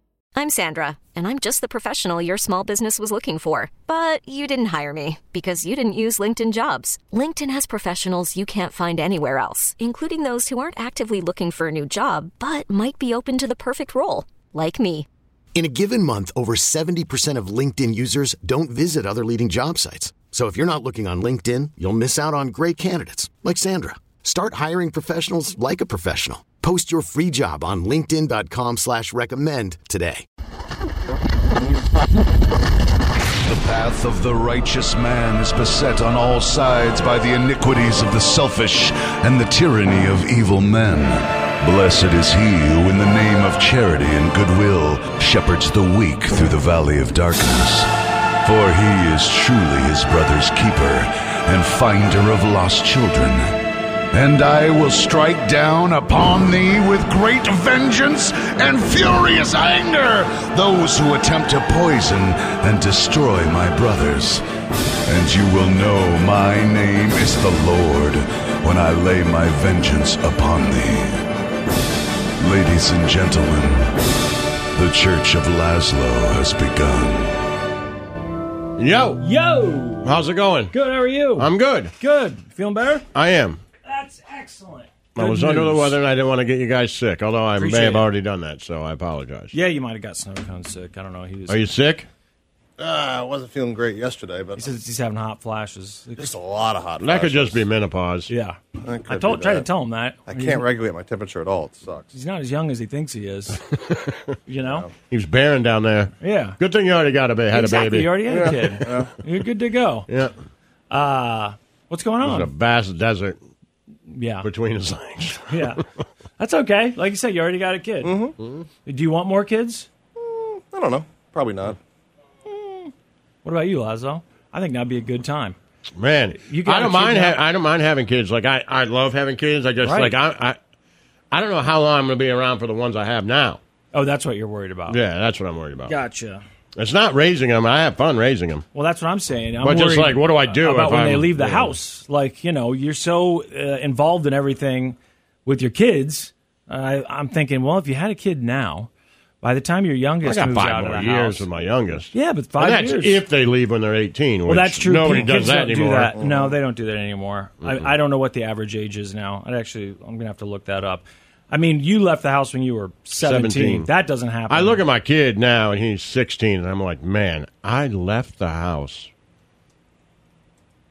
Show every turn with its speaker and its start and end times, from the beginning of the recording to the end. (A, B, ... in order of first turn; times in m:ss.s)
0:00.4-0:15.1 A
0:15.6-0:30.2 B
0:33.4-0:47.9 C
0:48.4-0:53.6 C
0:54.1-1:04.4 C
1:05.1-1:11.2 C
1:12.4-1:13.9 C
1:14.7-1:17.4 C
1:18.8-1:19.2 D
1:19.2-1:20.1 E
1:20.0-1:20.7 D
1:20.7-1:21.5 E
1:21.4-1:21.9 D
1:22.0-1:23.0 E
1:23.1-1:23.6 D
1:23.8-1:25.9 E
1:25.2-1:29.5 D
1:27.6-1:28.0 E
1:29.5-1:31.6 E
1:31.5-1:32.1 D
1:32.8-1:34.7 F
1:34.6-1:36.3 E
1:36.2-1:37.6 F
1:37.0-1:38.3 D
1:38.3-1:40.7 E
1:38.8-1:39.6 F
1:40.3-1:42.1 F
1:42.1-1:43.6 E
1:44.5-1:44.8 E
1:44.6-1:44.9 F
1:45.1-1:48.9 D
1:46.2-1:46.6 E
1:47.5-1:50.1 E
1:48.4-1:49.1 F
1:50.9-1:52.5 E
1:52.2-1:53.4 D
1:54.1-1:54.5 E
1:54.4-1:55.7 D
1:55.5-1:55.8 E
1:56.4-1:58.1 E
1:58.0-1:58.4 F
1:58.4-1:58.7 D
1:58.8-1:59.9 E
2:00.2-2:01.8 F
2:02.5-2:02.9 E
2:03.4-2:05.6 E
2:06.0-2:10.6 D
2:06.4-2:07.4 E
2:09.8-2:10.2 E
2:11.3-2:13.6 D
2:13.9-2:15.0 E
2:14.9-2:15.9 D
2:15.9-2:16.4 E
2:16.8-2:18.6 D
2:18.7-2:28.9 E
2:19.6-2:21.8 D
2:29.4-2:31.4 E
2:30.2-2:36.2 D
2:32.1-2:33.2 E
2:34.5-2:44.8 E
2:36.2-2:36.6 F
2:43.2-2:43.9 D
2:44.5-2:49.1 D